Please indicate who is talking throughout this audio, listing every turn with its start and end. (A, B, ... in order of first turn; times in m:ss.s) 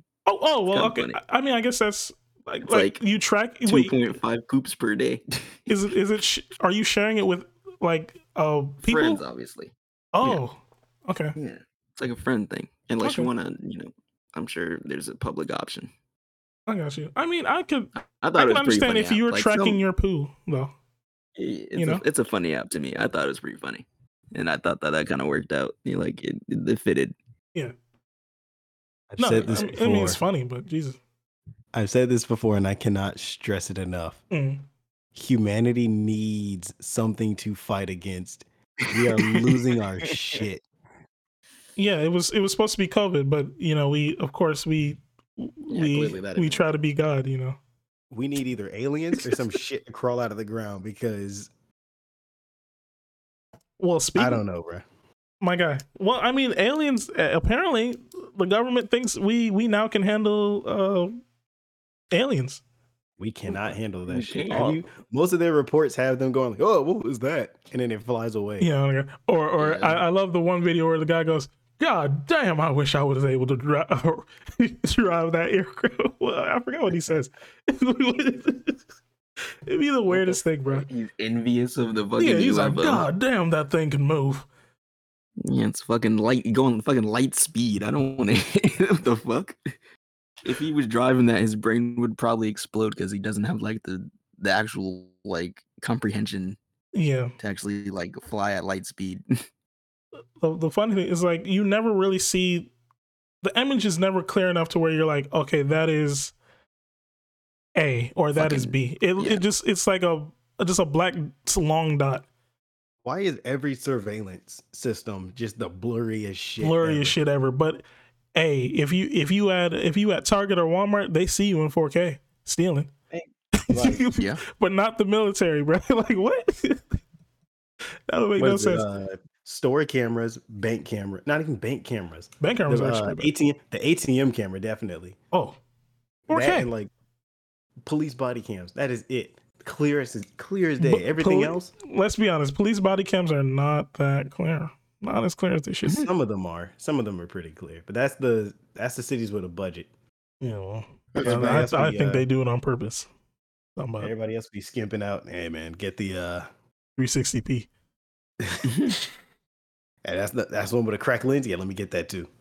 0:00.2-0:04.0 A
0:00.7-0:01.2 B
0:02.6-0:03.0 B
0:03.6-0:05.7 B
0:05.7-0:09.2 A
0:08.8-0:10.4 B
0:10.1-0:11.3 A
0:11.4-0:15.9 B
0:13.0-0:13.3 A
0:16.7-0:20.7 A
0:18.2-0:19.8 B
0:21.4-0:27.1 B
0:21.7-0:22.0 A
0:29.1-0:30.2 C
0:29.2-0:31.0 A
0:31.7-0:34.2 C
0:34.3-0:34.6 A
0:35.1-0:40.6 C
0:39.2-0:39.5 B
0:41.8-0:47.6 A
0:45.7-0:46.6 B
0:48.1-0:51.5 C
0:53.8-0:54.4 A
0:54.2-0:54.8 C
0:55.4-1:01.2 A
1:02.1-1:02.6 A
1:03.2-1:08.7 C
1:04.1-1:04.8 B
1:08.6-1:18.8 A
1:09.6-1:10.0 B
1:19.7-1:20.9 A
1:20.1-1:23.1 B
1:22.2-1:24.5 A
1:25.4-1:29.6 B
1:30.4-1:36.6 B
1:36.9-1:37.3 A
1:37.4-1:39.2 B
1:40.4-1:42.7 A
1:43.4-1:46.3 A
1:47.8-1:52.2 A
1:48.4-1:49.4 B
1:53.0-1:57.2 C
1:56.6-1:57.8 A
1:58.3-2:02.9 A
2:03.6-2:07.0 A
2:03.7-2:04.0 C
2:08.1-2:08.9 A
2:08.4-2:15.2 C
2:12.4-2:13.3 A
2:15.3-2:15.6 A
2:16.3-2:16.7 A
2:16.3-2:16.9 C
2:17.8-2:21.7 C
2:20.8-2:26.1 A
2:26.0-2:29.9 C
2:30.4-2:33.1 A
2:31.2-2:32.2 C
2:33.8-2:34.1 A
2:34.0-2:36.5 C
2:37.0-2:37.7 A
2:38.4-2:38.7 C
2:40.0-2:42.3 C